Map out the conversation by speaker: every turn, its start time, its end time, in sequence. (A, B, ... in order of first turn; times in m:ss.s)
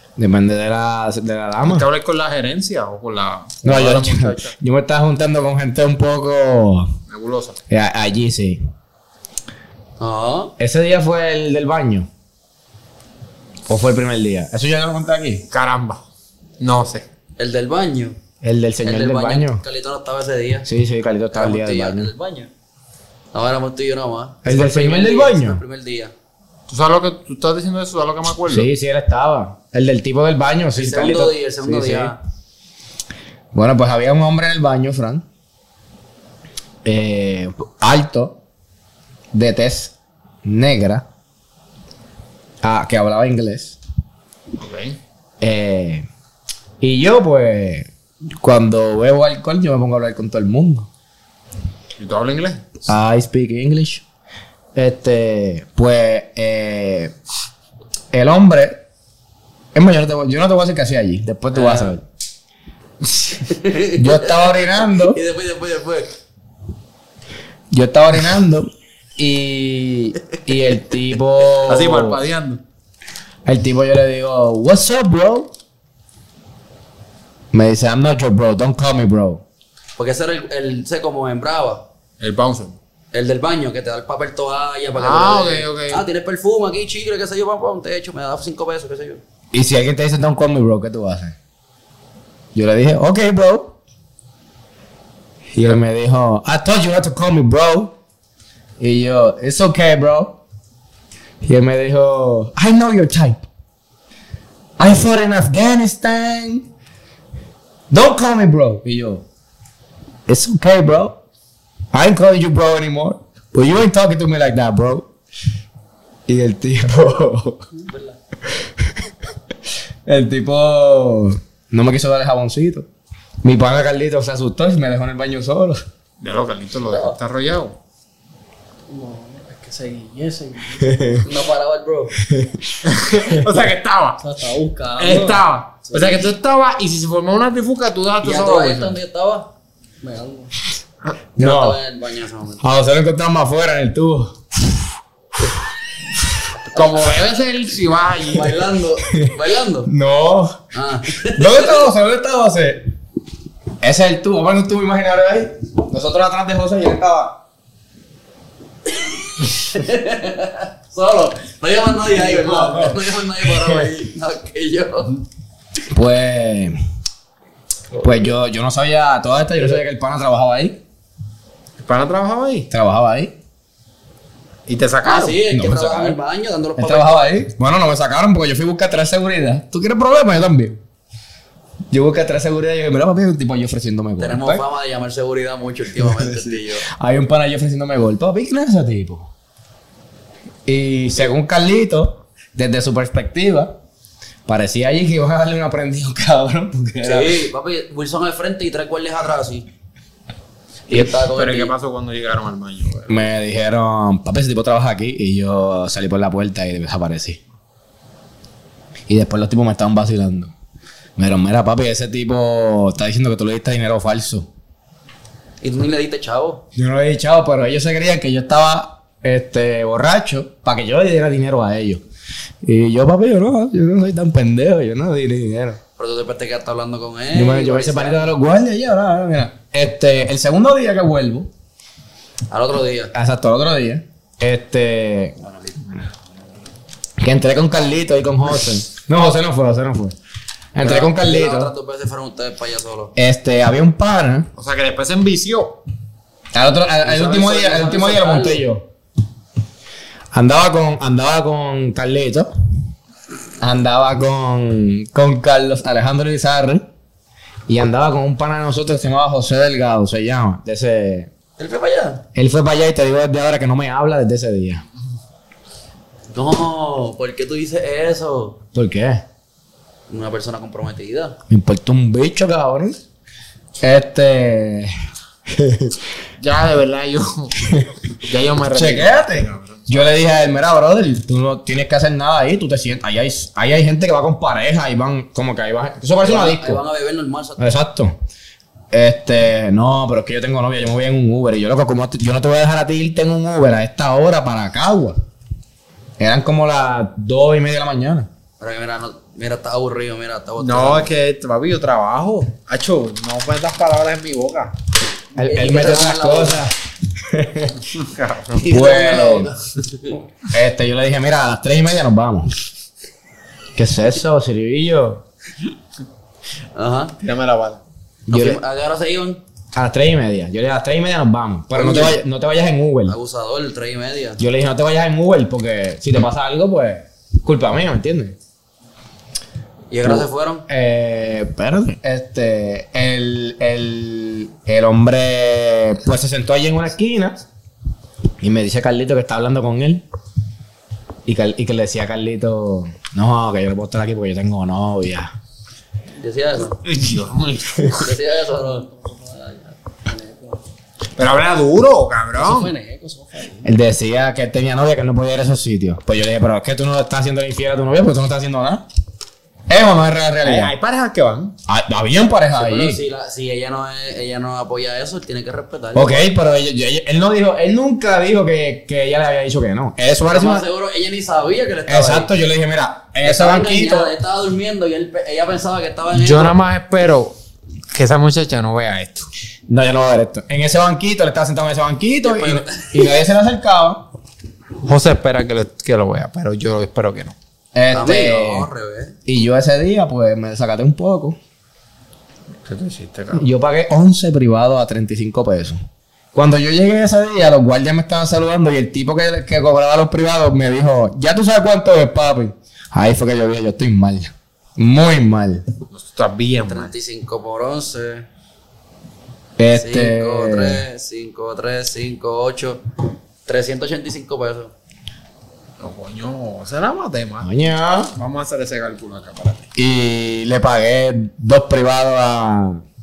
0:00.2-0:01.9 A
0:01.6-0:04.5 B
0:03.6-0:06.9 A
0:07.1-0:07.6 B
0:07.7-0:08.6 A
0:10.0-0:10.5 C
0:10.6-0:12.1 A
0:13.7-0:15.4 A
0:15.5-0:16.0 B
0:16.6-0:17.1 B
0:17.4-0:18.2 C
0:18.4-0:19.6 A
0:18.8-0:20.7 C
0:20.6-0:22.1 A
0:21.3-0:22.5 C
0:23.3-0:26.1 C
0:24.4-0:25.6 A
0:26.7-0:28.7 B
0:28.5-0:32.1 A
0:30.7-0:32.2 C
0:33.5-0:35.2 A
0:36.8-0:38.4 A
0:39.3-0:41.0 A
0:42.6-0:43.8 A
0:44.6-0:45.0 B
0:45.4-0:46.0 A
0:46.8-0:50.9 A
0:52.0-0:52.8 B
0:52.9-0:54.0 A
0:54.7-0:57.1 A
0:58.1-0:58.8 A
0:59.7-1:02.0 A
1:01.5-1:02.0 C
1:03.1-1:06.1 C
1:03.9-1:05.2 A
1:07.7-1:12.2 A
1:11.6-1:12.6 B
1:13.4-1:15.5 A
1:17.5-1:19.4 A
1:20.0-1:21.8 C
1:22.2-1:22.8 B
1:23.1-1:29.2 C
1:25.0-1:26.0 B
1:29.5-1:31.4 A
1:32.5-1:33.7 A
1:35.5-1:37.9 A
1:38.8-1:40.4 A
1:41.4-1:43.4 A
1:44.8-1:46.6 A
1:47.9-1:49.2 A
1:50.3-1:51.2 A
1:51.9-1:55.1 A
1:56.3-1:57.6 A
1:58.5-1:59.1 A
2:00.0-2:02.8 A
2:03.4-2:05.8 A
2:06.2-2:07.8 B
2:06.9-2:07.2 C
2:08.9-2:11.3 D
2:10.8-2:11.2 A
2:11.2-2:12.2 C
2:12.2-2:13.4 A
2:12.8-2:14.2 B
2:14.2-2:16.2 D
2:15.0-2:19.0 B
2:18.2-2:19.5 C
2:20.0-2:20.5 D
2:21.4-2:21.8 A
2:21.4-2:22.6 C
2:22.6-2:24.8 A
2:26.7-2:28.7 B
2:28.3-2:29.9 C
2:29.1-2:29.3 A
2:29.8-2:32.9 A
2:30.7-2:31.8 C
2:33.8-2:37.4 A
2:39.5-2:45.2 C
2:42.3-2:42.9 A
2:45.9-2:46.8 A
2:48.0-2:50.8 A
2:51.8-2:52.7 B
2:52.7-2:53.3 A
2:54.7-2:55.4 B
2:55.0-2:57.4 C
2:55.5-2:56.2 A
2:56.8-3:00.8 A
3:01.9-3:04.6 A
3:04.2-3:06.8 C
3:06.0-3:09.3 A
3:10.6-3:13.8 A
3:14.4-3:17.4 A
3:17.0-3:19.6 C
3:20.9-3:23.3 B
3:20.9-3:21.7 C
3:23.1-3:27.4 A
3:29.1-3:30.5 A
3:31.2-3:34.5 A
3:35.6-3:36.6 C
3:36.8-3:42.0 A
3:42.6-3:45.8 A
3:46.0-3:48.3 C
3:47.3-3:51.5 A
3:52.5-3:53.1 C
3:53.1-3:55.4 A
3:57.2-4:00.1 A
4:00.7-4:01.7 A
4:00.8-4:03.1 C
4:03.2-4:04.5 A
4:04.5-4:05.8 B
4:06.5-4:08.8 A
4:07.0-4:08.6 C
4:10.3-4:12.5 A
4:13.6-4:16.8 A
4:17.7-4:21.3 A
4:21.6-4:22.2 C
4:22.3-4:24.8 A
4:26.3-4:28.6 C
4:28.7-4:29.2 A
4:30.1-4:31.4 C
4:31.5-4:33.0 A
4:33.8-4:34.9 A
4:35.5-4:36.0 A
4:36.4-4:40.1 B
4:38.7-4:46.8 A
4:46.2-4:47.7 C
4:47.6-4:48.2 A
4:48.9-4:55.2 A
4:56.2-4:58.3 A
4:58.6-5:01.1 C
5:00.6-5:04.7 B
5:05.3-5:07.8 A
5:05.4-5:06.6 C
5:07.9-5:08.6 B
5:08.6-5:10.2 C
5:08.6-5:09.5 A
5:10.5-5:12.5 A
5:13.7-5:15.2 A
5:16.7-5:17.2 C
5:17.2-5:17.8 B
5:18.3-5:18.6 A
5:18.3-5:19.4 C
5:19.7-5:23.2 A
5:21.7-5:22.2 C
5:23.1-5:24.4 C
5:24.4-5:28.4 A
5:29.9-5:30.6 C
5:30.0-5:37.4 A
5:38.4-5:40.0 A
5:41.2-5:45.3 A
5:46.2-5:46.8 C
5:46.8-5:48.1 B
5:47.9-5:48.9 C
5:48.6-5:50.6 D
5:51.2-5:52.7 B
5:52.4-5:53.7 D
5:53.6-5:58.8 A
5:59.7-6:00.7 A
6:00.4-6:01.5 B
6:01.7-6:03.0 A
6:02.5-6:06.3 C
6:05.9-6:10.6 A
6:10.3-6:12.3 C
6:11.9-6:14.1 A
6:13.2-6:16.6 C
6:16.1-6:17.4 B
6:17.9-6:19.3 B
6:19.7-6:24.1 A
6:22.2-6:23.2 C
6:24.8-6:27.4 B
6:27.7-6:28.7 A
6:27.9-6:29.2 C
6:29.2-6:31.4 A
6:32.6-6:33.5 B
6:33.3-6:35.8 A
6:36.3-6:45.6 A
6:45.9-6:46.9 B
6:46.7-6:48.2 C
6:49.6-6:50.8 A
6:49.7-6:52.8 C
6:53.4-6:54.7 C
6:55.8-6:57.5 B
6:57.4-6:58.1 A
6:58.1-6:59.6 B
6:59.8-7:02.8 A